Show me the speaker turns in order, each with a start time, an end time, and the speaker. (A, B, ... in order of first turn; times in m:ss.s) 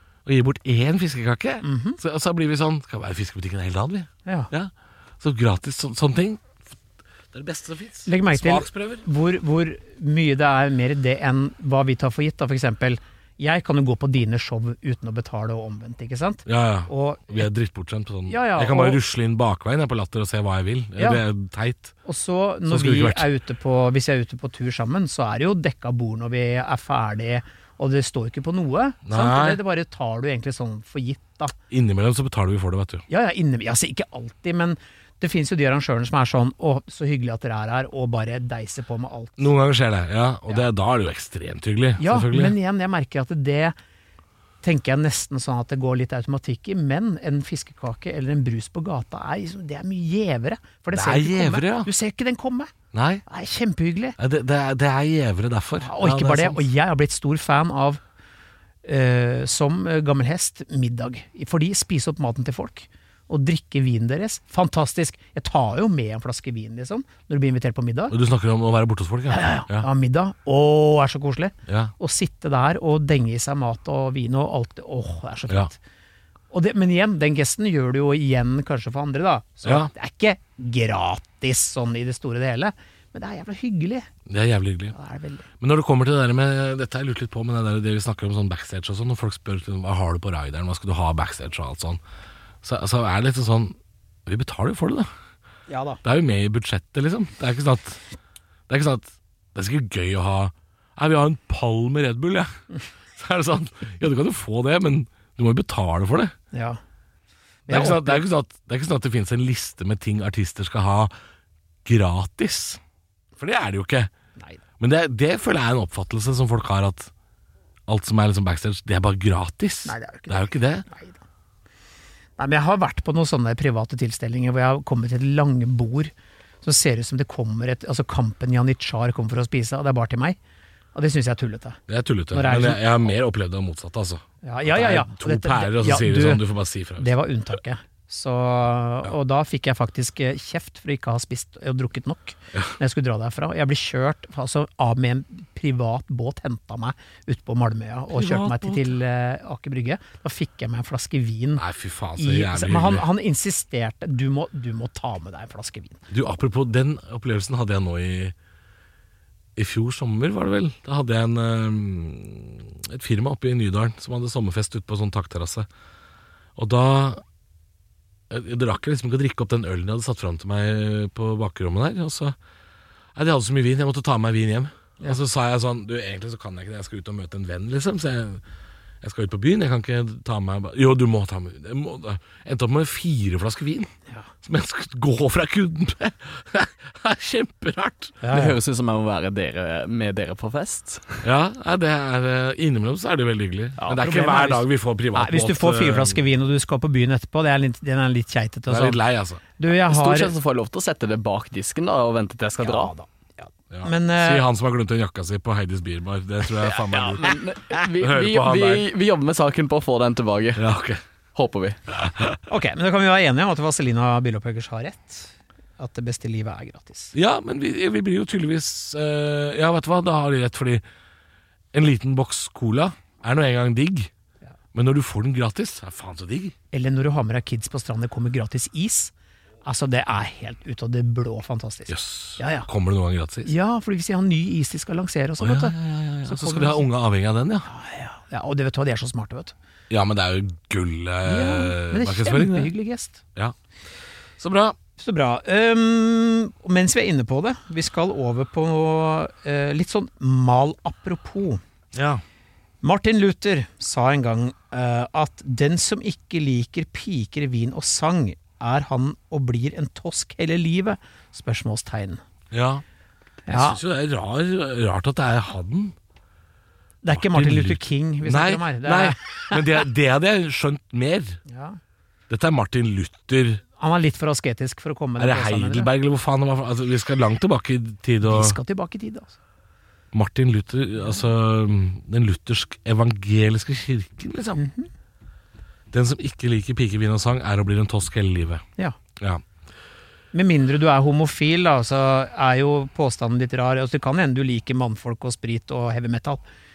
0:00.2-0:06.6 A
0:01.6-0:02.0 B
0:07.3-0:09.0 A
0:08.0-0:17.4 B
0:16.4-0:21.9 A
0:18.3-0:19.0 B
0:21.0-0:21.2 B
0:22.0-0:31.5 B
0:22.7-0:23.3 A
0:29.0-0:29.6 A
0:31.7-0:33.0 A
0:33.1-0:39.5 B
0:39.4-0:42.6 A
0:42.0-0:43.8 B
0:44.6-0:52.7 B
0:50.9-0:51.9 A
0:52.9-0:53.2 A
0:53.2-0:54.2 B
0:54.2-0:56.6 A
0:55.8-0:58.0 B
0:58.8-1:08.1 B
1:08.1-1:09.9 A
1:09.3-1:15.8 B
1:11.7-1:11.9 A
1:16.5-1:24.1 B
1:19.6-1:19.9 A
1:24.3-1:24.9 A
1:24.9-1:25.5 B
1:25.6-1:32.0 A
1:32.6-1:35.1 A
1:35.7-1:36.0 B
1:36.0-1:38.0 A
1:38.7-1:42.6 A
1:43.2-1:46.3 A
1:46.5-1:46.8 B
1:47.7-1:48.2 B
1:47.7-1:51.1 A
1:51.8-1:52.8 A
1:53.4-1:54.1 A
1:54.8-1:57.1 A
1:57.9-2:00.8 A
1:59.8-2:01.2 B
2:02.4-2:06.1 B
2:06.6-2:10.4 B
2:10.9-2:11.8 B
2:11.9-2:17.1 A
2:12.3-2:12.9 B
2:14.4-2:16.4 B
2:17.0-2:31.6 B
2:28.1-2:29.0 A
2:31.6-2:33.0 A
2:32.2-2:36.0 B
2:36.1-2:38.3 A
2:39.6-2:45.7 A
2:46.6-2:47.2 A
2:48.3-2:52.4 A
2:53.1-2:58.4 A
2:59.0-3:03.9 A
3:04.4-3:08.2 A
3:08.2-3:08.6 B
3:08.3-3:11.2 C
3:11.2-3:16.2 A
3:13.8-3:19.0 B
3:18.7-3:19.4 A
3:19.6-3:20.3 B
3:19.9-3:22.9 C
3:22.6-3:24.4 B
3:23.7-3:28.9 A
3:26.7-3:27.2 B
3:27.1-3:30.6 C
3:30.5-3:31.0 A
3:31.3-3:31.8 C
3:31.9-3:32.4 A
3:32.5-3:37.1 B
3:37.1-3:40.8 A
3:41.7-3:44.1 A
3:44.7-3:46.5 A
3:46.7-3:49.1 B
3:49.6-3:52.7 B
3:51.9-3:53.5 A
3:53.4-3:56.9 B
3:55.4-3:57.7 A
3:57.7-3:59.5 B
3:59.9-4:02.7 A
4:01.2-4:03.2 B
4:04.4-4:04.8 A
4:05.0-4:11.6 B
4:11.9-4:12.2 A
4:12.8-4:22.2 B
4:22.5-4:22.8 A
4:23.5-4:23.8 B
4:23.5-4:25.9 A
4:27.0-4:29.8 B
4:27.1-4:31.4 A
4:31.5-4:31.8 B
4:32.3-4:33.6 A
4:33.8-4:35.9 B
4:35.2-4:38.6 A
4:38.2-4:39.4 B
4:40.1-4:44.6 A
4:44.6-4:44.9 B
4:45.9-4:48.6 A
4:49.2-4:49.4 A
4:50.3-4:56.4 B